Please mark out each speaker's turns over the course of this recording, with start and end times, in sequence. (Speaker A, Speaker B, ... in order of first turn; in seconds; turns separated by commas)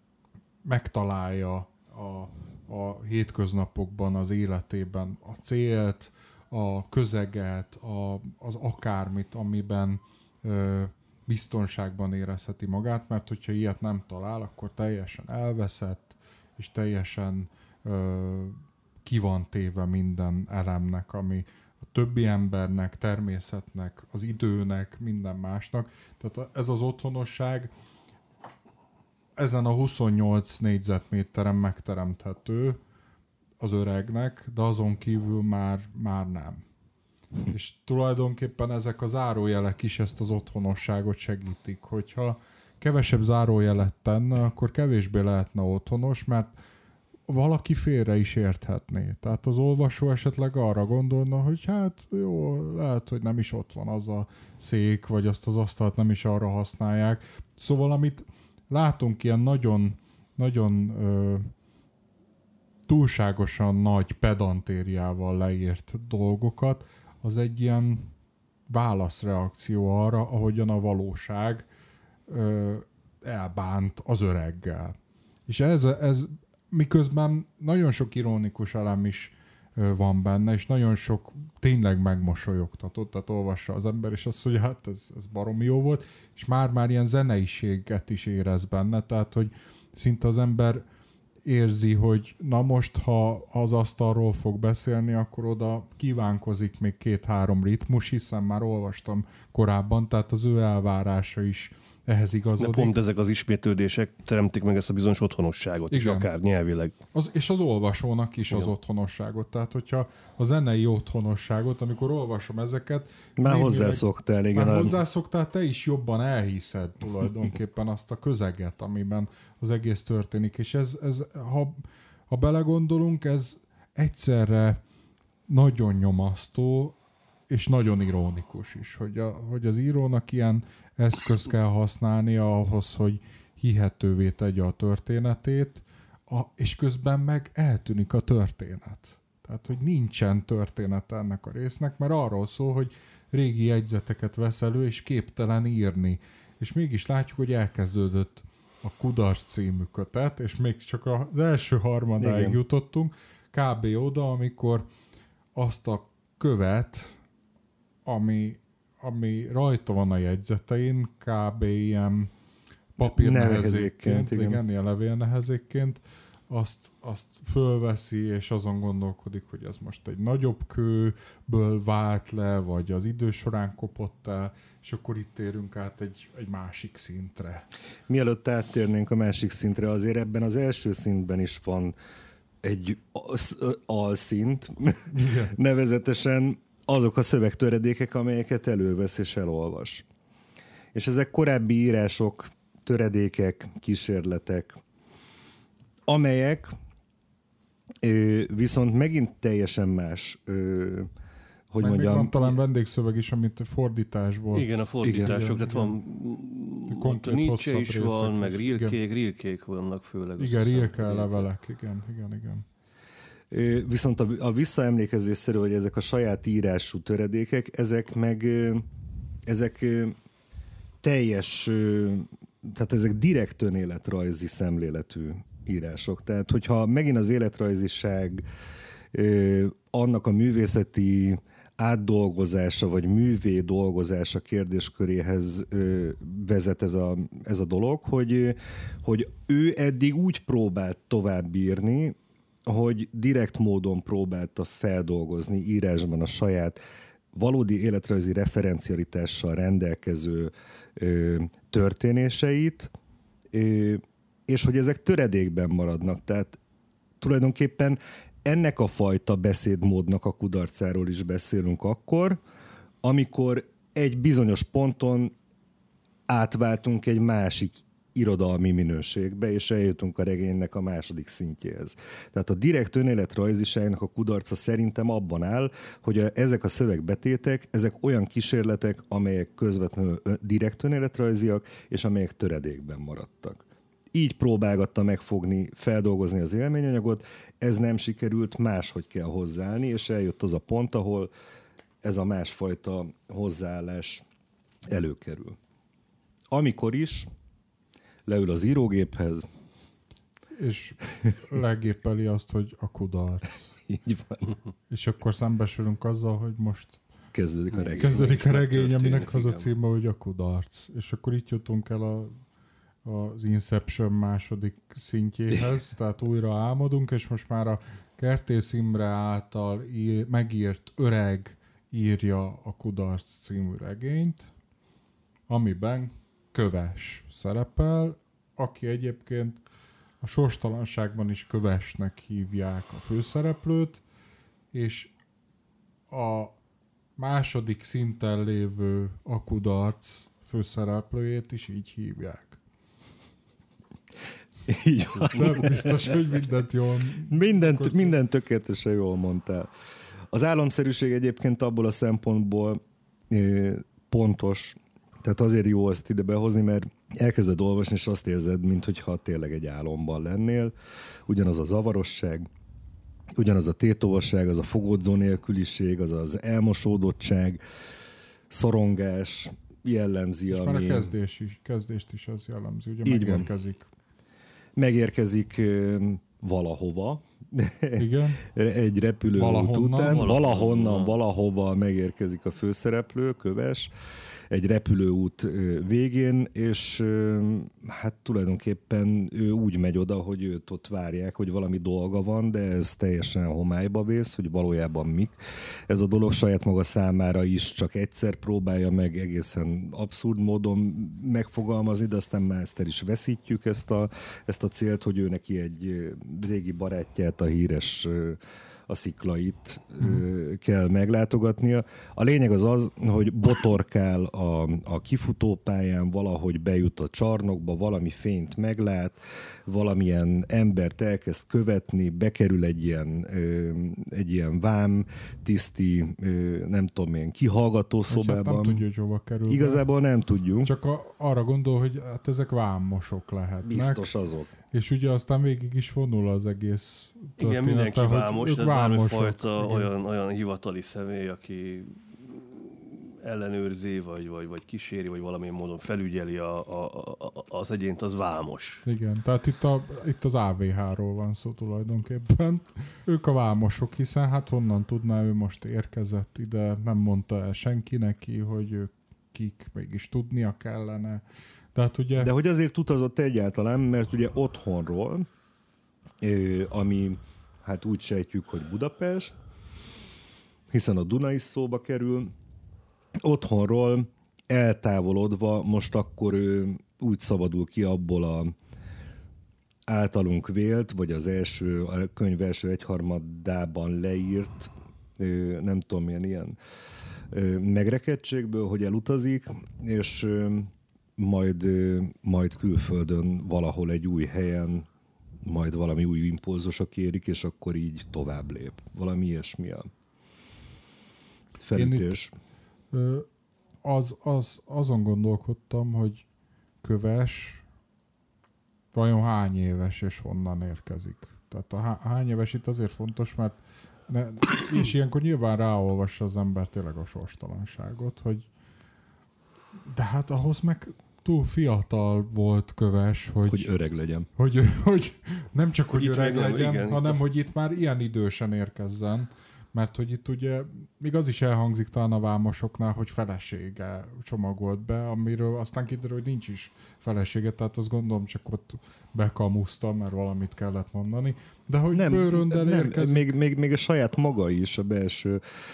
Speaker A: 0.7-27.7, Speaker A: 29.4-32.8, Speaker A: 33.6-36.6, Speaker A: 37.5-46.5, Speaker A: 47.3-61.5, Speaker A: 62.9-68.1, Speaker A: 68.7-71.7, Speaker A: 72.3-75.0, Speaker A: 75.5-90.8, Speaker A: 91.5-102.9, Speaker B: 102.6-107.0, Speaker A: 105.9-106.3, Speaker A: 107.1-124.8, Speaker C: 113.4-115.0, Speaker A: 125.5-127.0, Speaker A: 127.5-154.8, Speaker C: 152.2-152.6, Speaker A: 155.6-157.1, Speaker A: 158.1-162.3, Speaker A: 163.0-177.6, Speaker C: 163.0-164.6, Speaker C: 178.1-181.9, Speaker C: 182.6-190.0, Speaker A: 185.1-185.6, Speaker C: 190.9-194.8, Speaker C: 196.1-196.7, Speaker C: 198.0-201.1, Speaker C: 201.7-202.6, Speaker A: 201.8-204.7, Speaker B: 204.5-211.5, Speaker C: 205.0-205.3, Speaker A: 205.2-205.9, Speaker A: 206.9-208.9, Speaker A: 210.4-212.6, Speaker C: 213.5-218.8, Speaker C: 219.5-220.2, Speaker C: 221.0-228.4, Speaker C: 229.1-246.8, Speaker C: 247.3-252.9, Speaker C: 253.5-256.6, Speaker C: 257.2-262.4, Speaker C: 263.0-265.3, Speaker C: 266.3-291.3, Speaker C: 292.0-294.2, Speaker C: 294.9-295.6, Speaker C: 296.5-297.3, Speaker C: 298.2-299.4, Speaker A: 300.6-303.7, Speaker C: 303.9-304.5, Speaker A: 304.9-307.0, Speaker C: 307.3-308.3, Speaker B: 307.8-309.7, Speaker A: 308.0-312.3, Speaker A: 313.0-324.5, Speaker A: 325.5-329.6, Speaker A: 330.2-334.0, Speaker A: 334.7-335.1, Speaker A: 336.1-336.6, Speaker A: 337.2-342.6, Speaker C: 344.6-346.4, Speaker A: 345.2-348.2, Speaker C: 347.3-349.7, Speaker C: 350.3-360.7, Speaker C: 361.3-362.5, Speaker C: 363.4-367.6, Speaker C: 368.5-371.1, Speaker A: 370.5-373.9, Speaker C: 373.1-373.5, Speaker C: 374.8-383.9, Speaker A: 377.9-378.4, Speaker A: 379.3-380.3, Speaker B: 380.1-381.2, Speaker C: 384.5-395.3, Speaker C: 395.9-428.8, Speaker A: 428.1-429.8, Speaker C: 429.5-430.7, Speaker A: 430.6-434.1, Speaker C: 433.6-434.5, Speaker A: 434.7-439.9, Speaker B: 437.4-448.8, Speaker A: 448.8-461.2, Speaker A: 461.7-462.3, Speaker C: 462.2-465.3, Speaker C: 466.2-469.3, Speaker C: 470.7-472.3, Speaker C: 473.2-478.5, Speaker C: 479.9-486.6, Speaker C: 487.3-494.9, Speaker C: 495.4-499.9, Speaker C: 501.6-502.3, Speaker A: 501.7-502.1, Speaker A: 502.9-503.2, Speaker A: 503.8-506.2, Speaker A: 506.8-507.6, Speaker A: 508.9-518.5, Speaker A: 519.9-523.7, Speaker C: 523.5-524.3, Speaker A: 524.4-543.3, Speaker B: 526.0-527.2, Speaker C: 541.9-545.4